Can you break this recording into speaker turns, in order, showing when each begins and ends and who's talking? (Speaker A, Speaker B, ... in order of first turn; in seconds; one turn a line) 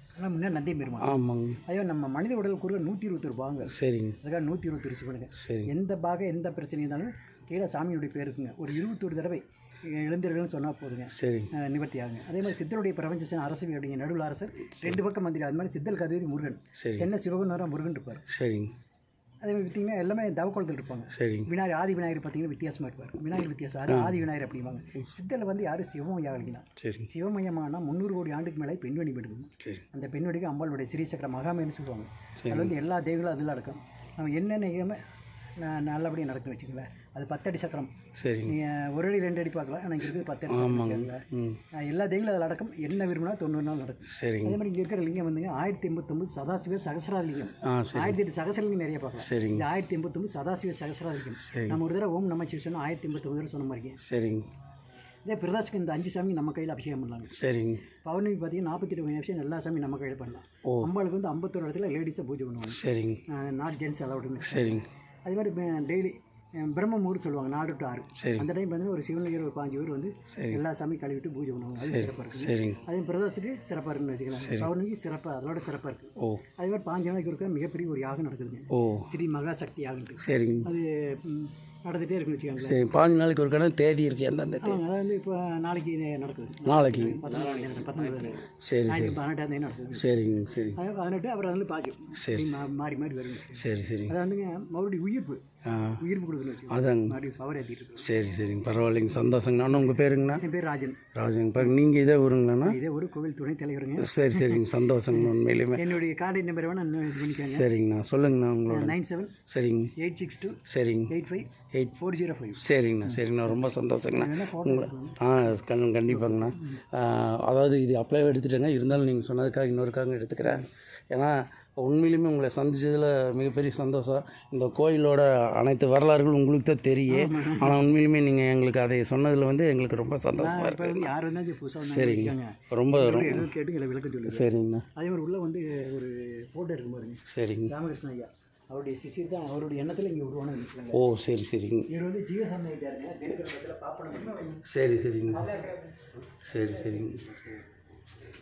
Speaker A: 0.1-1.1
Speaker B: 1.0-1.6
Speaker A: 1.6-18.2
Speaker B: 3.7-4.2
Speaker B: 5.3-5.7
Speaker B: 11.1-11.5
Speaker B: 16.8-17.1
Speaker B: 18.3-18.7
Speaker A: 19.4-35.0
Speaker B: 21.1-21.5
Speaker B: 23.9-24.2
Speaker B: 26.8-27.1
Speaker B: 32.4-32.7
Speaker A: 35.6-37.9
Speaker B: 38.2-38.5
Speaker A: 38.5-54.0
Speaker B: 40.5-41.6
Speaker B: 44.1-44.6
Speaker B: 47.6-48.2
Speaker B: 49.2-49.6
Speaker B: 51.4-51.8
Speaker B: 54.0-54.5
Speaker A: 55.2-57.4
Speaker B: 57.3-57.9
Speaker A: 58.0-82.8
Speaker B: 60.6-60.9
Speaker B: 62.7-63.2
Speaker B: 64.5-64.8
Speaker B: 68.2-68.5
Speaker B: 70.3-70.6
Speaker B: 71.8-72.8
Speaker B: 74.4-74.7
Speaker B: 76.2-76.4
Speaker B: 78.7-79.1
Speaker B: 80.2-80.7
Speaker B: 82.6-84.8
Speaker A: 84.6-90.1
Speaker B: 86.6-87.4
Speaker B: 88.6-89.2
Speaker B: 89.9-90.8
Speaker A: 90.7-95.4
Speaker B: 92.2-92.6
Speaker B: 93.5-94.1
Speaker B: 95.6-96.0
Speaker A: 96.0-98.2
Speaker B: 96.7-97.2
Speaker B: 98.0-100.4
Speaker A: 99.9-101.0
Speaker B: 101.1-102.8
Speaker A: 102.6-104.6
Speaker B: 104.0-105.9
Speaker A: 105.1-107.7
Speaker B: 107.3-109.0
Speaker A: 108.7-109.3
Speaker B: 109.5-109.9
Speaker A: 110.0-115.2
Speaker B: 110.7-111.1
Speaker B: 111.7-112.0
Speaker B: 112.6-131.1
Speaker A: 116.1-116.8
Speaker A: 127.1-127.8
Speaker A: 130.4-141.0
Speaker B: 131.8-133.5
Speaker B: 134.2-134.9
Speaker B: 137.3-137.7
Speaker B: 140.9-141.9
Speaker A: 141.9-144.7
Speaker B: 144.6-145.7
Speaker A: 145.3-146.0
Speaker B: 146.4-147.3
Speaker A: 147.2-147.6